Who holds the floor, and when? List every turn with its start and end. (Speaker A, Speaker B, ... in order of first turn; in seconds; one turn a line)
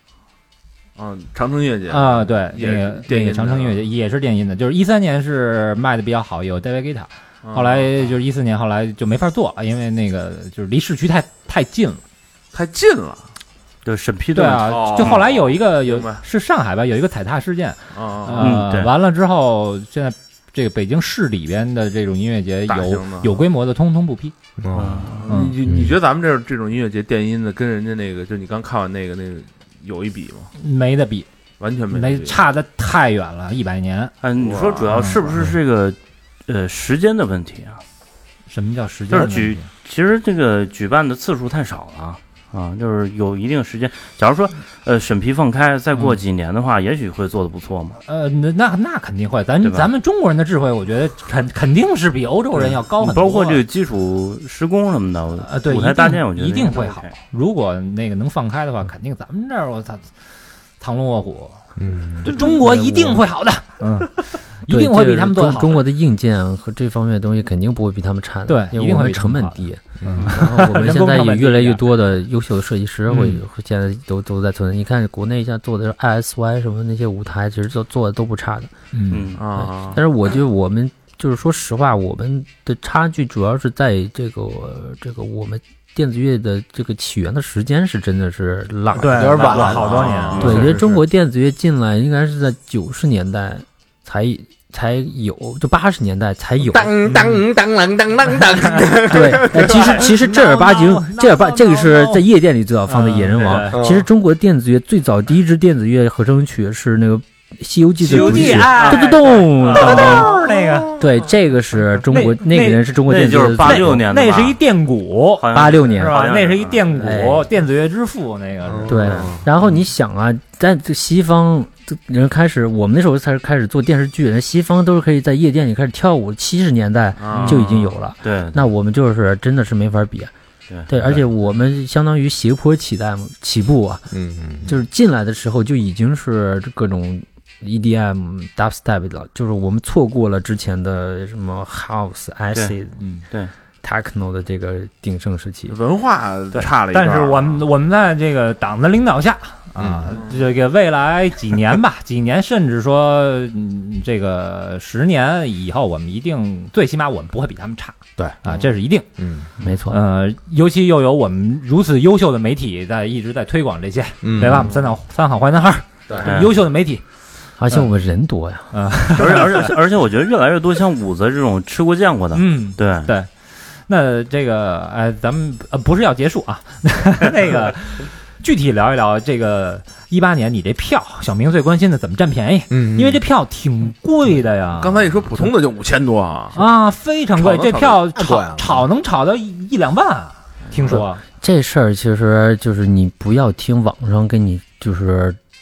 Speaker A: 0.9-3.8
Speaker B: 1.9-12.0
Speaker A: 7.4-8.1
Speaker A: 12.5-13.3
Speaker C: 13.8-15.2
Speaker B: 14.3-24.3
Speaker A: 14.6-16.2
Speaker A: 17.9-18.6
Speaker C: 18.4-18.9
Speaker A: 22.7-23.4
Speaker D: 24.6-26.0
Speaker C: 24.7-25.2
Speaker A: 25.0-30.5
Speaker B: 25.3-25.6
Speaker B: 30.6-31.3
Speaker A: 31.6-32.4
Speaker B: 31.9-34.1
Speaker C: 34.2-37.8
Speaker A: 34.4-35.0
Speaker B: 34.9-35.2
Speaker B: 38.5-39.6
Speaker C: 39.1-48.0
Speaker B: 48.0-53.6
Speaker C: 49.6-49.9
Speaker C: 52.6-57.1
Speaker B: 55.4-60.1
Speaker B: 60.8-61.6
Speaker D: 61.8-62.4
Speaker B: 62.2-65.8
Speaker E: 62.3-63.2
Speaker E: 64.7-78.7
Speaker B: 68.5-71.8
Speaker D: 70.0-70.4
Speaker B: 73.1-73.4
Speaker B: 78.9-79.4
Speaker C: 79.1-79.4
Speaker A: 79.4-80.0
Speaker E: 79.5-89.8
Speaker B: 88.9-90.8
Speaker D: 89.0-90.7
Speaker A: 89.8-90.5
Speaker C: 90.3-90.6
Speaker E: 90.3-96.9
Speaker D: 96.7-100.0
Speaker B: 97.1-97.4
Speaker E: 99.1-110.4
Speaker B: 99.5-102.2
Speaker B: 102.9-103.8
Speaker D: 103.7-104.0
Speaker B: 108.0-111.0
Speaker D: 109.8-111.0
Speaker E: 111.0-114.0
Speaker B: 112.1-112.9
Speaker C: 113.0-114.6
Speaker B: 113.6-118.9
Speaker C: 115.4-116.9
Speaker E: 115.5-116.2
Speaker E: 116.9-117.5
Speaker D: 118.7-119.4
Speaker E: 118.8-130.3
Speaker A: 127.2-127.6
Speaker B: 127.3-127.6
Speaker C: 127.5-128.6
Speaker E: 130.9-134.1
Speaker D: 134.1-134.7
Speaker E: 134.6-143.0
Speaker B: 143.0-143.2
Speaker E: 143.8-145.7
Speaker A: 145.7-147.7
Speaker B: 146.5-159.1
Speaker D: 149.8-150.1
Speaker A: 150.1-150.4
Speaker D: 158.2-158.6
Speaker D: 159.2-159.5
Speaker E: 159.6-160.0
Speaker B: 159.9-167.0
Speaker D: 164.2-164.8
Speaker C: 166.2-166.5
Speaker E: 167.6-168.8
Speaker B: 168.7-169.7
Speaker C: 169.2-173.1
Speaker B: 172.3-173.3
Speaker B: 173.8-185.5
Speaker D: 182.7-183.2
Speaker A: 184.7-186.7
Speaker B: 186.5-191.2
Speaker A: 187.3-188.1
Speaker D: 188.1-188.8
Speaker A: 190.7-191.0
Speaker E: 191.4-195.4